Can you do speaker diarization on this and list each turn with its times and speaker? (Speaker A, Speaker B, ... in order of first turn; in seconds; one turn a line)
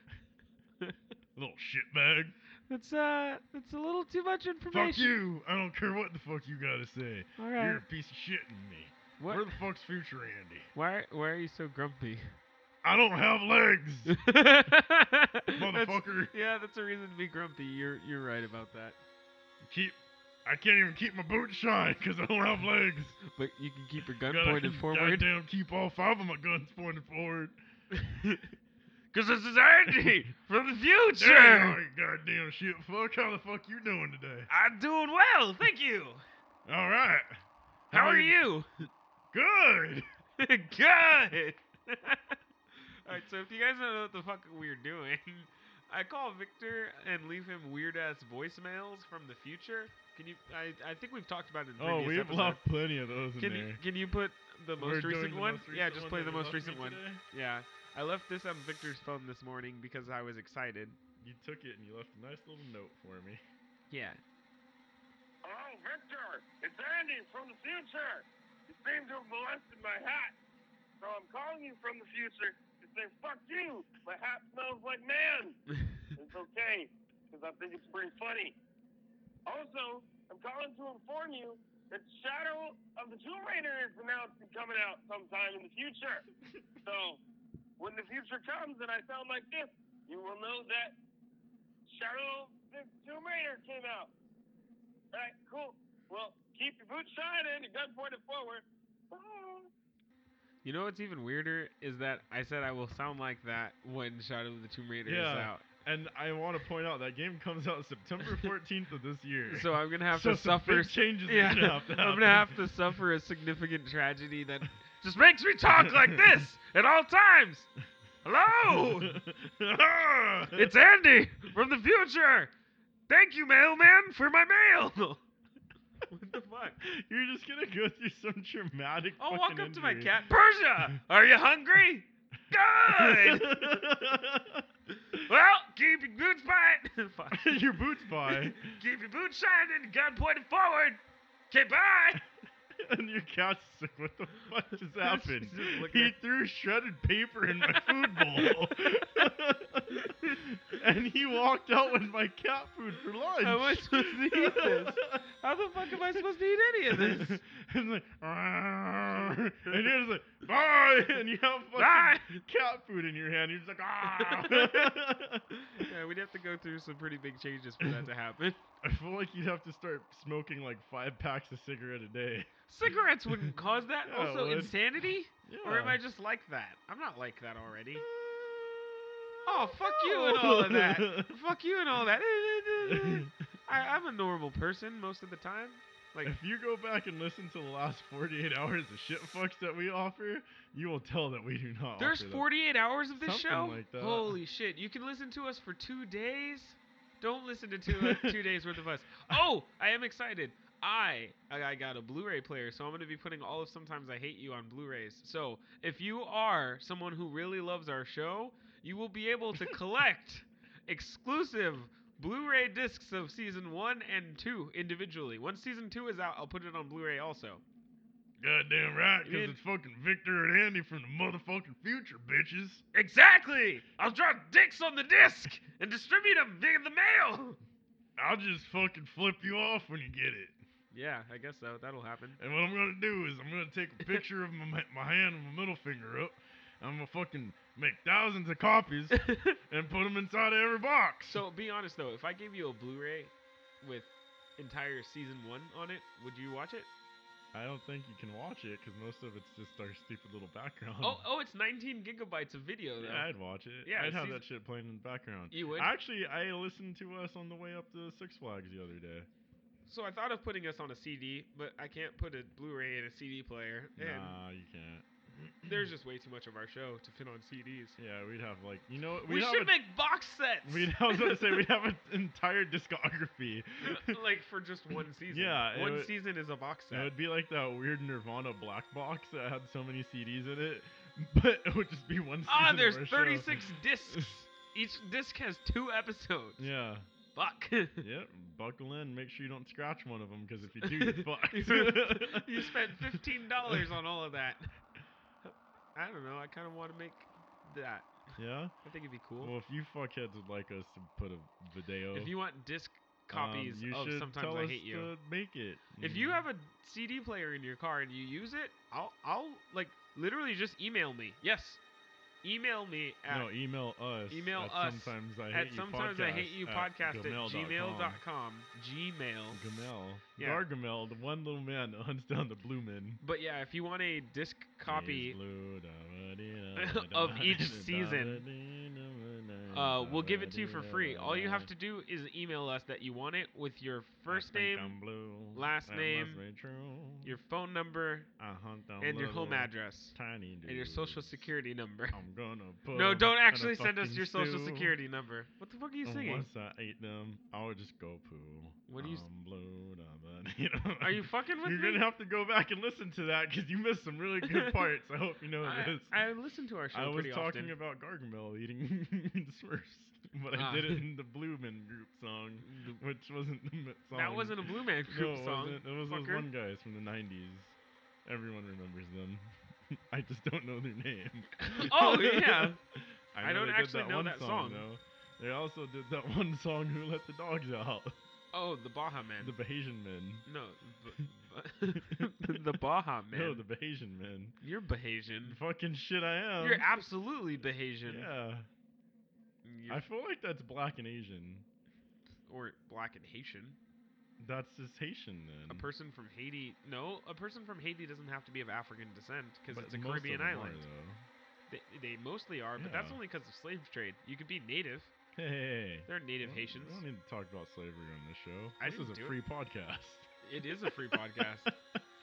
Speaker A: 1.4-2.4
Speaker B: 2.7-5.2
Speaker A: 4.7-10.7
Speaker B: 7.4-7.8
Speaker B: 9.2-9.6
Speaker B: 10.8-12.4
Speaker A: 12.8-14.2
Speaker B: 14.1-19.0
Speaker A: 15.5-16.3
Speaker A: 19.6-23.2
Speaker B: 23.2-25.3
Speaker A: 24.2-27.6
Speaker B: 27.9-28.5
Speaker B: 29.1-31.8
Speaker A: 29.9-30.3
Speaker A: 31.2-34.5
Speaker B: 34.5-36.2
Speaker A: 36.7-38.4
Speaker B: 37.9-38.7
Speaker A: 39.3-40.1
Speaker B: 40.4-52.6
Speaker A: 51.8-53.8
Speaker B: 53.4-61.0
Speaker A: 54.8-57.2
Speaker A: 61.2-63.4
Speaker B: 63.9-64.2
Speaker C: 65.4-70.3
Speaker C: 71.0-75.6
Speaker C: 76.1-78.5
Speaker C: 79.5-86.3
Speaker C: 86.8-87.2
Speaker C: 87.8-91.0
Speaker C: 91.9-94.1
Speaker C: 95.1-99.7
Speaker B: 100.6-105.6
Speaker A: 105.0-112.7
Speaker B: 109.5-117.7
Speaker A: 115.8-116.2
Speaker B: 118.2-119.2
Speaker A: 118.8-120.7
Speaker B: 120.5-122.5
Speaker B: 123.1-125.2
Speaker B: 126.1-126.8
Speaker A: 126.8-130.2
Speaker B: 129.2-133.9
Speaker A: 132.9-135.2
Speaker B: 135.1-142.2
Speaker A: 137.3-138.8
Speaker A: 142.7-155.3
Speaker B: 145.0-146.1
Speaker B: 147.7-149.1
Speaker B: 149.9-150.4
Speaker B: 153.4-157.4
Speaker A: 155.9-156.2
Speaker A: 156.9-165.9
Speaker B: 161.8-162.4
Speaker B: 164.1-165.0
Speaker B: 165.5-168.7
Speaker A: 168.8-173.5
Speaker B: 172.7-178.1
Speaker A: 174.1-174.8
Speaker A: 175.4-176.0
Speaker A: 178.0-181.4
Speaker B: 179.4-186.3
Speaker A: 182.8-183.3
Speaker A: 186.2-192.5
Speaker B: 192.0-217.6
Speaker A: 193.2-194.4
Speaker A: 197.9-199.4
Speaker A: 218.4-222.8
Speaker B: 219.2-219.6
Speaker B: 222.9-227.6
Speaker A: 228.2-230.6
Speaker B: 230.9-232.4
Speaker A: 232.4-241.4
Speaker B: 239.1-239.6
Speaker B: 241.3-246.9
Speaker A: 247.5-251.2
Speaker B: 251.0-253.3
Speaker A: 253.0-259.3
Speaker B: 253.8-254.4
Speaker B: 255.5-255.9
Speaker B: 259.9-264.4
Speaker A: 264.0-265.8
Speaker B: 265.6-268.0
Speaker A: 268.0-269.7
Speaker B: 269.3-271.5
Speaker A: 270.6-274.2
Speaker B: 273.8-277.1
Speaker A: 275.3-276.2
Speaker A: 276.9-284.3
Speaker B: 282.5-286.7
Speaker A: 286.6-287.1
Speaker B: 287.3-288.1
Speaker A: 288.0-293.8
Speaker B: 290.8-294.7
Speaker B: 295.4-298.3
Speaker A: 298.4-298.7
Speaker B: 298.8-299.5
Speaker A: 299.4-302.3
Speaker B: 302.1-305.1
Speaker A: 303.3-306.4
Speaker B: 306.0-311.8
Speaker B: 312.4-313.5
Speaker A: 313.3-318.2
Speaker B: 314.3-319.6
Speaker A: 319.5-323.2
Speaker B: 320.4-320.6
Speaker B: 323.2-325.4
Speaker A: 324.9-331.7
Speaker B: 326.8-328.4
Speaker B: 329.7-335.0
Speaker A: 334.3-337.3
Speaker B: 335.5-336.4
Speaker B: 337.2-338.3
Speaker A: 338.4-341.5
Speaker B: 339.0-342.2
Speaker A: 342.1-345.0
Speaker B: 342.9-346.5
Speaker A: 346.0-356.1
Speaker B: 348.9-349.3
Speaker B: 351.0-352.0
Speaker B: 355.6-357.8
Speaker A: 356.9-378.2
Speaker B: 360.5-361.0
Speaker B: 362.6-363.0
Speaker B: 364.1-366.5
Speaker B: 371.6-372.8
Speaker B: 373.4-374.9
Speaker B: 378.5-379.6
Speaker A: 379.4-380.4
Speaker B: 380.5-383.6
Speaker A: 381.9-382.6
Speaker A: 383.3-384.6
Speaker B: 384.6-385.6
Speaker A: 385.4-386.9
Speaker B: 386.6-388.3
Speaker A: 388.1-388.7
Speaker B: 389.6-390.1
Speaker A: 389.9-391.7
Speaker B: 392.5-393.8
Speaker A: 394.4-395.9
Speaker B: 395.7-400.8
Speaker A: 399.7-401.2
Speaker B: 401.7-405.1
Speaker A: 402.8-403.2
Speaker A: 405.4-412.0
Speaker B: 406.1-407.0
Speaker B: 408.8-409.4
Speaker B: 410.4-411.7